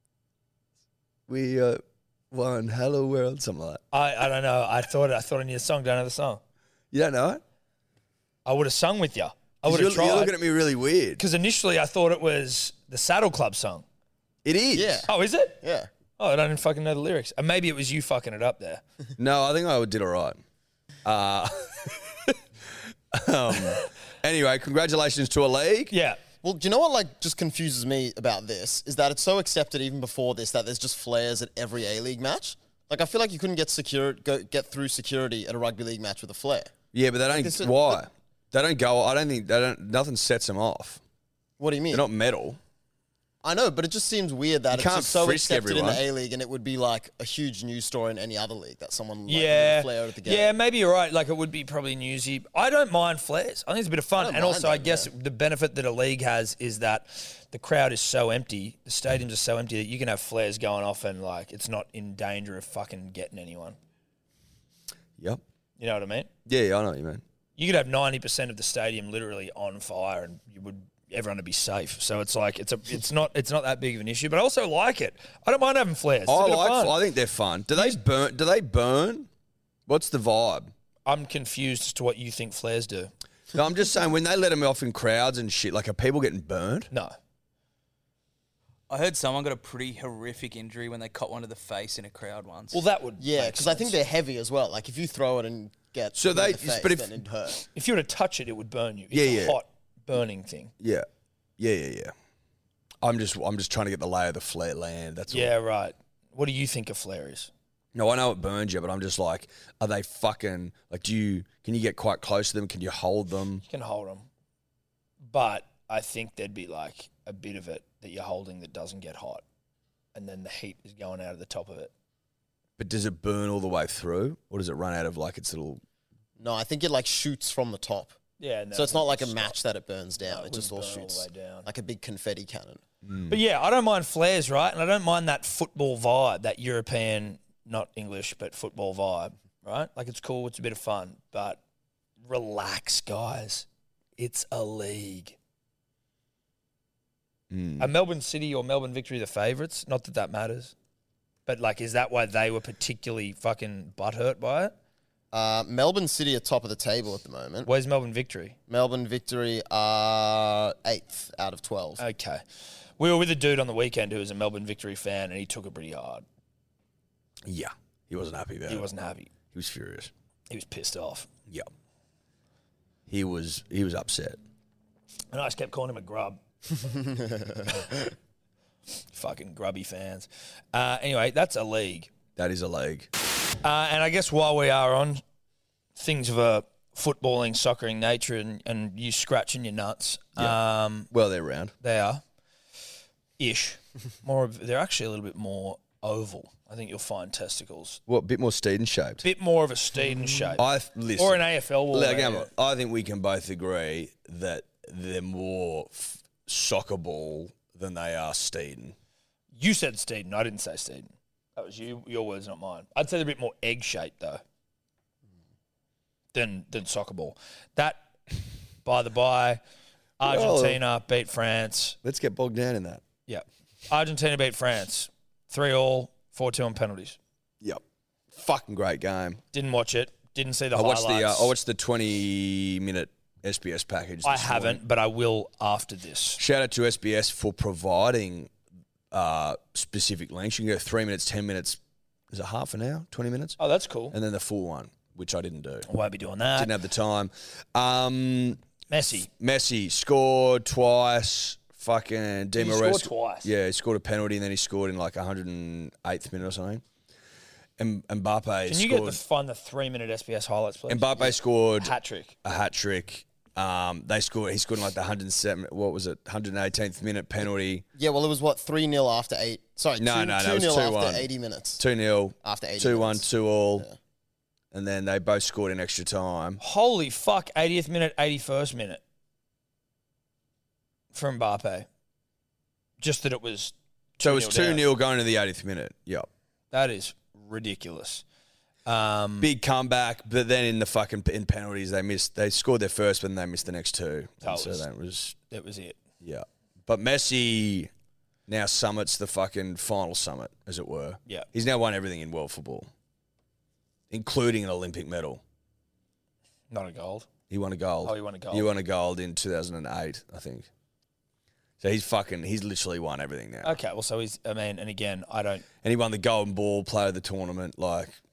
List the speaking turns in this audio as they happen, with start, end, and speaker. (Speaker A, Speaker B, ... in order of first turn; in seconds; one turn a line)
Speaker A: 1.3-3.8
Speaker B: 3.9-6.4
Speaker A: 6.9-7.4
Speaker B: 8.5-10.3
Speaker A: 9.7-11.2
Speaker B: 11.2-13.8
Speaker A: 14.4-15.1
Speaker C: 14.8-15.1
Speaker B: 15.1-15.6
Speaker C: 15.6-15.9
Speaker B: 16.2-18.8
Speaker A: 19.2-20.4
Speaker A: 21.1-22.4
Speaker A: 23.1-25.9
Speaker B: 25.9-26.2
Speaker C: 26.4-36.7
Speaker A: 36.9-41.0
Speaker C: 37.3-38.0
Speaker C: 41.6-42.0
Speaker A: 41.9-42.6
Speaker C: 43.4-50.5
Speaker A: 44.7-46.0
Speaker B: 49.3-63.8
Speaker C: 54.2-55.1
Speaker B: 65.8-66.3
Speaker A: 66.5-67.2
Speaker B: 67.6-77.0
Speaker A: 76.3-79.3
Speaker A: 79.9-80.7
Speaker B: 81.1-83.1
Speaker A: 83.5-86.9
Speaker D: 88.9-92.8
Speaker B: 92.7-94.0
Speaker C: 93.2-97.6
Speaker A: 96.1-97.2
Speaker B: 97.7-100.7
Speaker A: 99.1-99.6
Speaker A: 100.8-101.1
Speaker A: 101.6-102.1
Speaker A: 103.0-105.5
Speaker B: 105.3-107.5
Speaker A: 108.0-113.6
Speaker B: 113.7-114.3
Speaker B: 115.2-119.4
Speaker B: 120.1-121.9
Speaker A: 122.8-125.8
Speaker C: 126.4-128.2
Speaker B: 128.4-129.6
Speaker C: 128.7-132.8
Speaker B: 130.2-131.7
Speaker A: 133.1-133.4
Speaker B: 133.3-141.6
Speaker B: 142.2-143.7
Speaker B: 144.2-145.4
Speaker A: 147.5-147.9
Speaker B: 147.8-150.7
Speaker B: 151.5-154.8
Speaker C: 155.3-157.7
Speaker B: 157.7-158.6
Speaker C: 158.7-162.0
Speaker B: 162.0-162.4
Speaker B: 163.0-166.2
Speaker A: 167.4-168.9
Speaker B: 168.7-169.3
Speaker A: 169.5-170.1
Speaker B: 170.5-171.3
Speaker A: 173.1-174.4
Speaker B: 175.3-176.4
Speaker B: 179.1-182.1
Speaker A: 182.4-183.1
Speaker B: 183.6-185.2
Speaker B: 186.0-191.1
Speaker A: 191.1-191.7
Speaker B: 191.8-192.2
Speaker B: 193.4-198.0
Speaker A: 198.1-199.2
Speaker B: 199.2-200.7
Speaker A: 200.6-209.0
Speaker B: 201.2-202.5
Speaker B: 209.5-214.4
Speaker B: 216.3-218.1
Speaker B: 218.8-219.6
Speaker A: 220.2-220.8
Speaker B: 220.2-222.0
Speaker A: 222.0-223.0
Speaker B: 223.3-227.2
Speaker A: 227.6-229.4
Speaker B: 229.5-231.5
Speaker A: 230.7-234.8
Speaker B: 234.2-236.4
Speaker A: 236.4-238.5
Speaker A: 239.1-241.8
Speaker A: 242.3-243.6
Speaker B: 243.6-244.2
Speaker A: 244.1-245.9
Speaker B: 245.9-246.8
Speaker A: 246.6-248.6
Speaker B: 248.9-249.3
Speaker A: 249.3-256.8
Speaker B: 252.6-253.5
Speaker A: 257.8-259.2
Speaker B: 258.7-262.4
Speaker A: 260.9-261.9
Speaker A: 262.4-267.9
Speaker C: 268.0-271.8
Speaker A: 270.0-273.9
Speaker C: 272.4-273.2
Speaker A: 274.7-276.6
Speaker B: 276.6-279.0
Speaker B: 281.1-281.9
Speaker B: 283.0-284.9
Speaker A: 284.2-286.3
Speaker B: 286.7-288.2
Speaker B: 288.9-289.5
Speaker A: 289.4-295.4
Speaker B: 294.4-294.9
Speaker B: 295.5-296.0
Speaker A: 296.2-297.9
Speaker A: 298.5-302.9
Speaker A: 304.1-305.4
Speaker B: 306.7-307.3
Speaker A: 307.5-310.7
Speaker B: 308.0-308.7
Speaker A: 311.8-313.8
Speaker B: 313.6-315.6
Speaker A: 315.8-318.1